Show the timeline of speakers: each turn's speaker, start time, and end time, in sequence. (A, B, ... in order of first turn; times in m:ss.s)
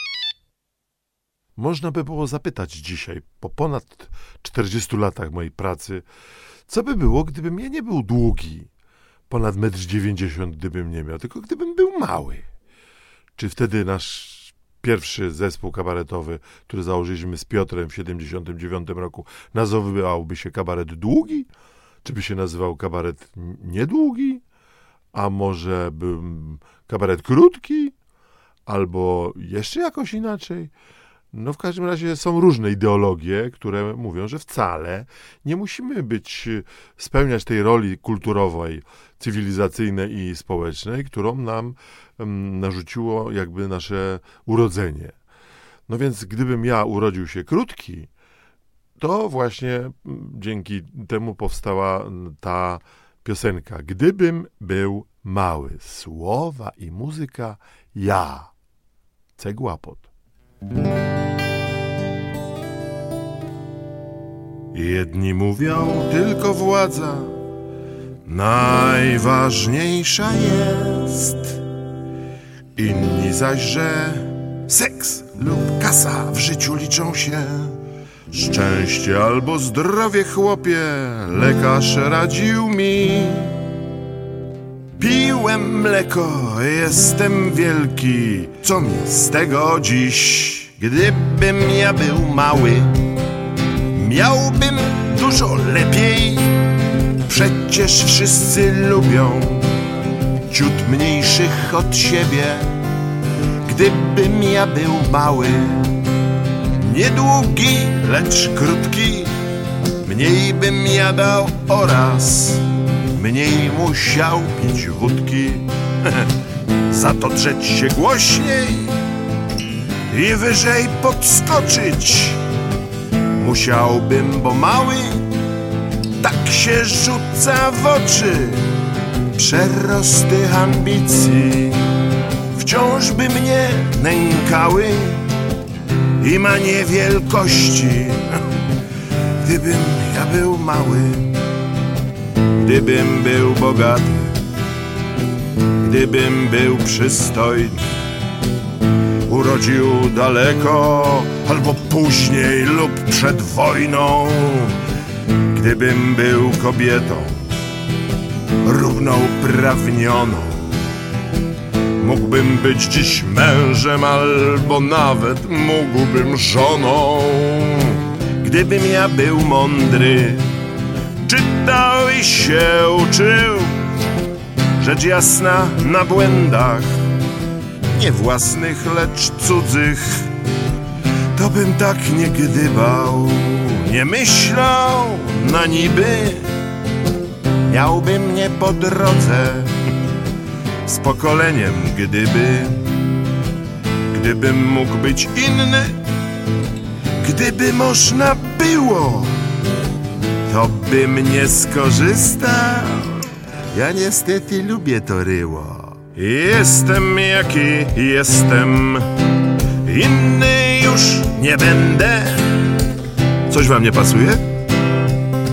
0:01.6-0:06.0 A
0:06.7-0:08.7 A
0:09.3-0:12.5 A
0:13.4-0:21.5 A
0:22.0-0:24.4 A
0:25.1-0:28.0 A
0:28.7-0:30.7 A
0:31.3-0:45.2 A
0:45.9-0:48.1 A
0:49.0-0:58.5 A
0:59.4-1:00.1 A
1:04.7-1:07.4 A
1:08.2-1:11.6 A
1:12.8-1:23.6 A
1:25.0-1:33.1 A
1:33.9-1:36.6 A
1:37.2-1:39.7 A
1:40.5-1:42.8 A
1:43.6-1:46.0 A
1:46.8-1:49.4 A
1:50.0-1:56.3 A
1:56.9-1:59.0 A
2:00.1-2:02.4 A
2:03.4-2:05.4 A
2:06.2-2:08.8 A
2:09.3-2:11.9 A
2:12.5-2:15.3 A
2:16.2-2:18.5 A
2:19.4-2:21.4 A
2:22.6-2:24.4 A
2:25.8-2:28.0 A
2:29.3-2:34.8 A
2:35.5-2:37.5 A
2:38.6-2:40.9 A
2:42.0-2:50.5 A
2:51.2-2:53.9 A
2:54.8-2:57.1 A
2:57.9-3:00.3 A
3:01.3-3:06.5 A
3:07.7-3:09.8 A
3:10.8-3:12.9 A
3:14.1-3:16.0 A
3:17.2-3:19.5 A
3:20.5-3:29.1 A
3:29.8-3:32.7 A
3:33.5-3:34.5 A